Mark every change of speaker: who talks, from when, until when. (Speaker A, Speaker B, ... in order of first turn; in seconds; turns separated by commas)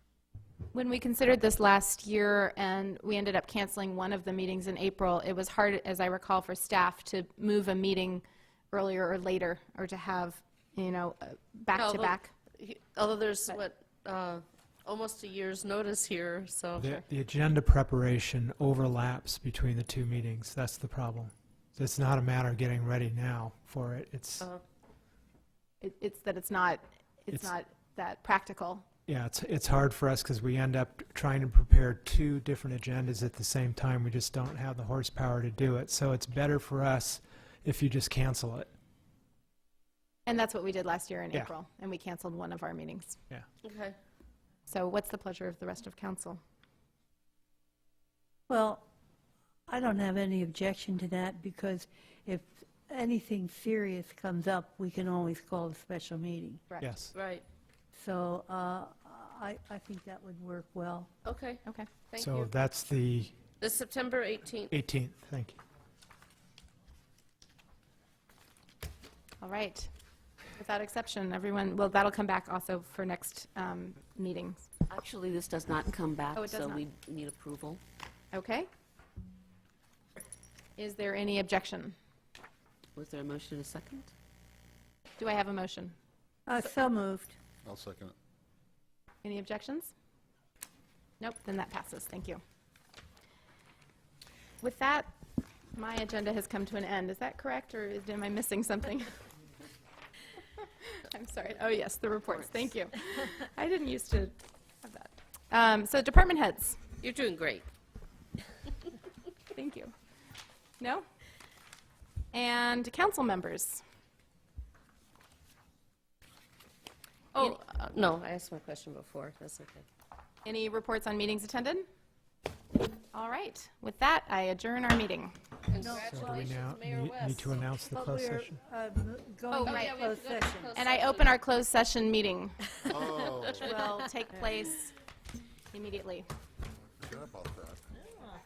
Speaker A: 0.7-12.3, Speaker B: 11.7-17.0, Speaker C: 16.8-24.4, Speaker D: 21.9-22.3, Speaker A: 25.8-28.8, Speaker C: 29.1-38.7, Speaker A: 40.2-43.2, Speaker B: 43.6-44.0, Speaker A: 44.7-46.4, Speaker E: 48.5-48.8, Speaker E: 49.7-56.6, Speaker C: 56.8-57.1, Speaker B: 57.1-57.4, Speaker E: 57.9-61.1, Speaker B: 61.2-62.5, Speaker C: 62.2-63.3, Speaker B: 63.6-64.7, Speaker C: 64.7-65.6, Speaker A: 69.4-69.9, Speaker A: 70.5-74.7, Speaker D: 74.9-77.8, Speaker A: 76.3-76.8, Speaker A: 78.3-78.7, Speaker A: 80.8-82.0, Speaker D: 83.0-84.1, Speaker A: 85.2-85.9, Speaker E: 86.5-87.4, Speaker F: 87.6-88.1, Speaker A: 89.2-89.9, Speaker A: 91.2-92.4, Speaker A: 94.6-95.1, Speaker A: 95.8-99.2, Speaker A: 100.8-106.8, Speaker B: 107.0-107.7, Speaker A: 109.5-109.9, Speaker A: 110.8-111.0, Speaker A: 112.3-113.8, Speaker A: 117.3-117.8, Speaker B: 117.4-119.8, Speaker A: 120.4-121.8, Speaker A: 123.1-125.3, Speaker B: 125.7-127.6, Speaker E: 125.8-126.5, Speaker C: 126.0-128.5, Speaker E: 127.9-130.7, Speaker A: 129.5-130.0, Speaker B: 129.6-131.4, Speaker A: 130.7-132.9, Speaker F: 132.9-133.7, Speaker B: 133.0-133.6, Speaker A: 133.6-134.9, Speaker E: 133.7-133.9, Speaker A: 135.7-136.3, Speaker F: 137.0-137.9